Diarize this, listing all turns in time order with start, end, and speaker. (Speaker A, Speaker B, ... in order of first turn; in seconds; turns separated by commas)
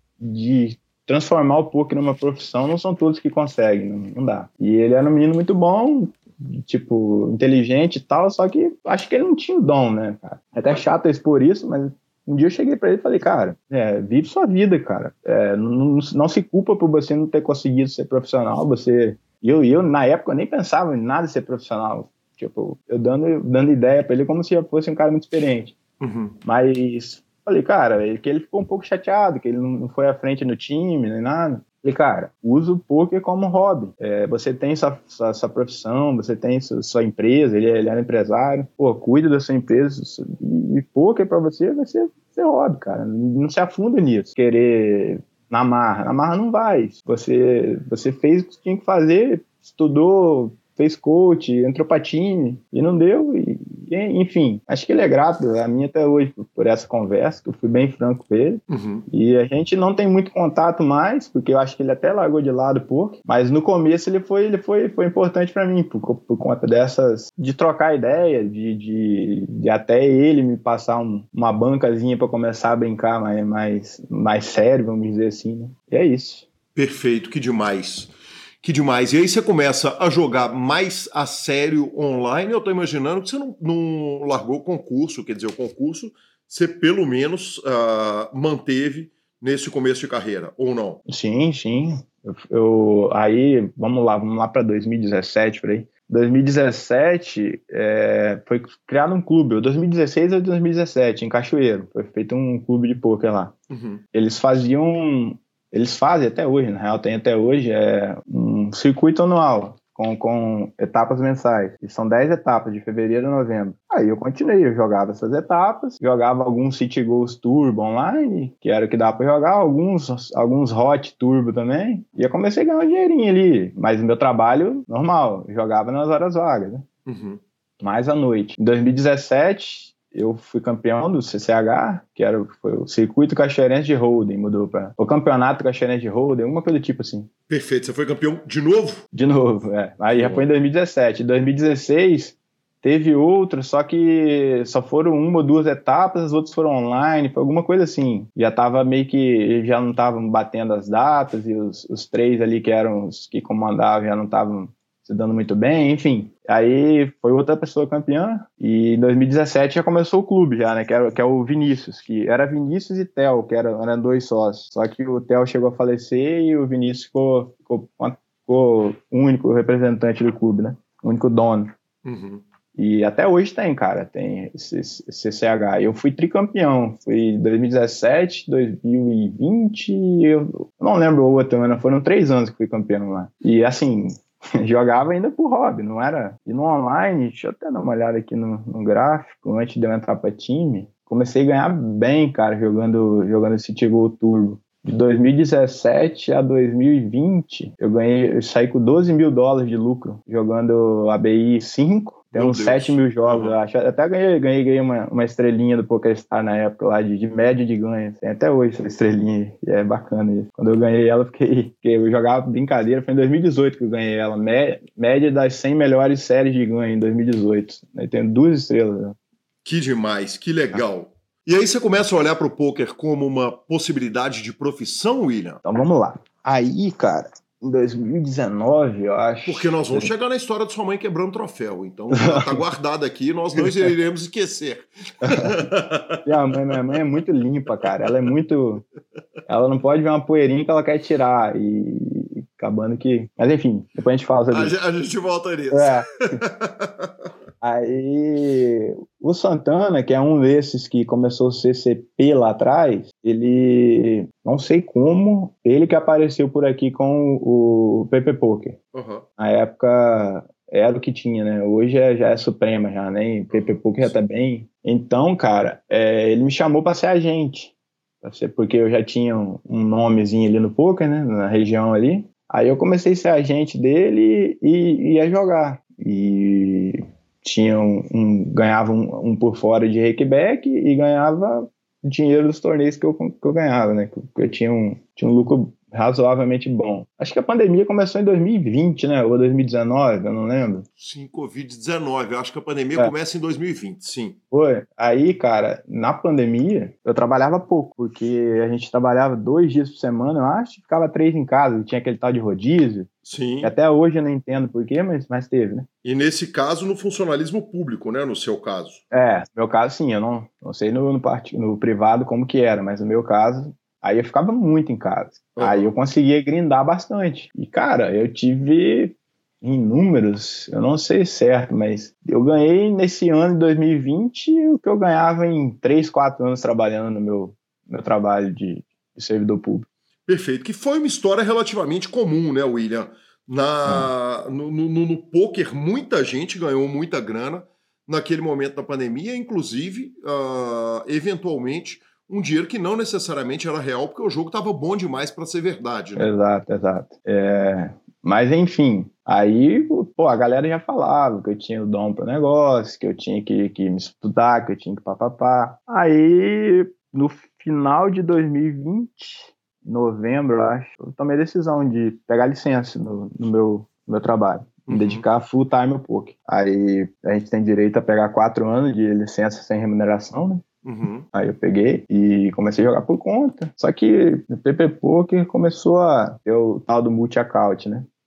Speaker A: 0.2-25.8, Speaker B: 26.0-26.4, Speaker A: 26.4-76.5, Speaker B: 58.7-59.1, Speaker B: 76.8-91.0, Speaker A: 91.1-103.5, Speaker B: 103.7-104.0, Speaker A: 104.1-126.9, Speaker B: 127.1-127.4, Speaker A: 127.8-137.3, Speaker B: 137.5-139.1, Speaker A: 139.1-171.7, Speaker B: 140.1-140.5, Speaker B: 172.0-172.4, Speaker A: 172.8-219.2, Speaker B: 202.3-203.6, Speaker B: 219.7-225.6, Speaker A: 225.7-230.1, Speaker B: 229.5-236.2, Speaker A: 232.1-232.6, Speaker A: 233.6-233.9, Speaker A: 235.2-235.6, Speaker A: 236.2-238.8, Speaker A: 239.5-244.8, Speaker B: 244.5-247.1, Speaker A: 245.7-246.4, Speaker A: 247.6-258.8, Speaker B: 258.9-259.2, Speaker A: 259.4-267.7, Speaker B: 263.5-264.2, Speaker A: 268.2-290.9, Speaker B: 291.0-294.4, Speaker A: 294.5-303.1, Speaker B: 303.3-303.8, Speaker A: 303.6-305.9, Speaker B: 306.0-309.0, Speaker A: 309.1-329.9, Speaker B: 315.6-315.9, Speaker B: 330.3-346.3, Speaker A: 346.2-370.6, Speaker B: 364.9-365.2, Speaker B: 370.8-371.3, Speaker A: 371.3-378.1